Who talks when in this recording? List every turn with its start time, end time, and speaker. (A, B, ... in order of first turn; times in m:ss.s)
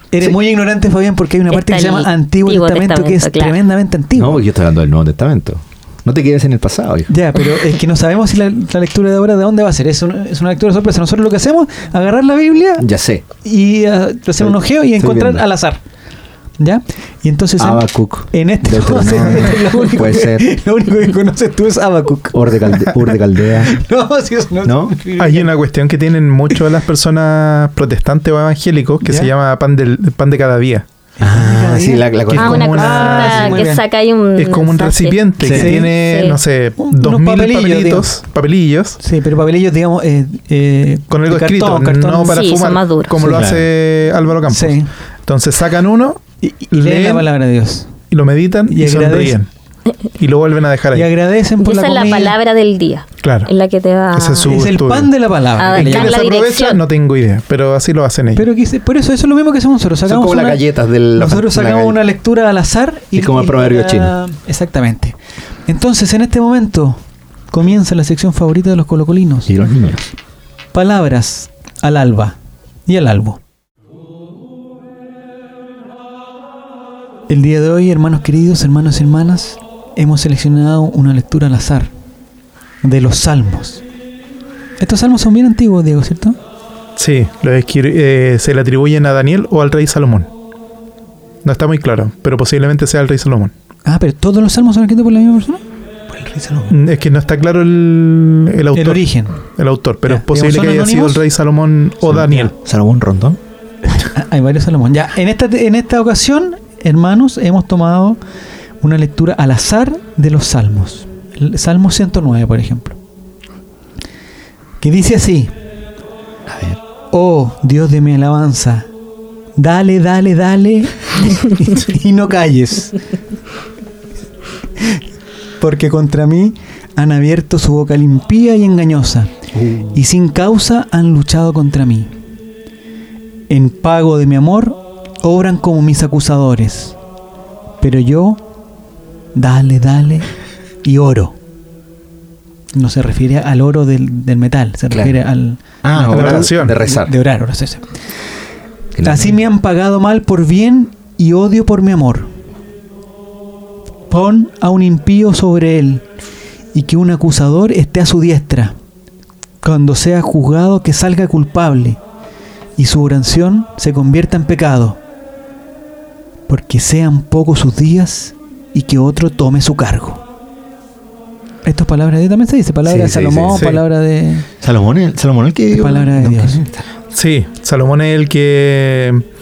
0:00.1-0:04.4 A
0:01.5-0:03.6 B
0:04.2-0:07.1 C
0:07.1-0:12.9 A
0:12.8-0:13.2 C
0:13.4-0:15.8 A
0:14.4-0:15.4 C
0:16.6-0:25.5 A
0:17.6-0:20.5 C
0:22.3-0:23.8 C
0:24.6-0:25.0 C
0:25.2-0:30.9 D
0:29.0-0:29.3 A
0:31.2-0:33.8 A
0:31.2-0:32.9 C
0:32.3-0:33.6 D
0:32.3-0:36.4 B
0:34.4-0:39.0 D
0:35.4-0:35.8 C
0:35.5-0:35.9 A
0:36.8-0:38.1 A
0:39.0-0:42.5 A
0:41.1-0:47.3 D
0:42.3-0:43.2 B
0:43.2-0:43.7 C
0:44.5-0:44.9 A
0:46.4-0:47.9 A
0:48.1-0:49.5 D
0:48.7-0:49.4 A
0:50.2-0:51.1 D
0:50.9-0:52.4 A
0:51.6-0:54.6 B
0:53.2-0:53.5 D
0:54.1-0:55.1 D
0:54.4-0:56.2 A
0:55.6-0:56.8 B
0:55.7-0:58.5 D
0:58.4-1:00.6 A
1:00.1-1:02.0 C
1:01.2-1:05.2 A
1:03.2-1:04.1 C
1:05.7-1:09.5 A
1:09.5-1:10.1 C
1:10.7-1:12.4 A
1:12.9-1:13.4 A
1:17.3-1:21.9 A
1:22.8-1:23.8 A
1:24.8-1:26.4 A
1:27.0-1:30.3 D
1:31.4-1:33.5 D
1:33.8-1:35.6 A
1:36.1-1:36.8 C
1:36.7-1:42.5 D
1:38.7-1:39.4 A
1:40.1-1:41.2 A
1:42.0-1:43.4 C
1:43.9-1:48.2 A
1:48.8-1:53.0 A
1:54.8-1:55.5 A
1:56.5-1:56.8 C
1:57.1-1:58.9 A
1:59.6-2:03.0 A
2:05.6-2:09.3 A
2:09.5-2:10.0 C
2:09.9-2:12.1 A
2:13.5-2:17.0 A
2:17.8-2:18.4 A
2:19.4-2:20.3 A
2:20.8-2:21.4 A
2:22.7-2:28.0 A
2:25.8-2:27.1 C
2:26.1-2:26.8 D
2:28.9-2:29.4 C
2:29.0-2:32.3 A
2:34.1-2:36.1 A
2:36.7-2:38.8 A
2:39.6-2:42.0 A
2:42.8-2:45.0 A
2:46.5-2:50.2 A
2:51.6-2:54.5 A
2:52.8-2:53.7 C
2:53.6-2:53.8 D
2:54.6-2:56.9 C
2:55.7-2:56.6 A
2:57.1-2:59.2 D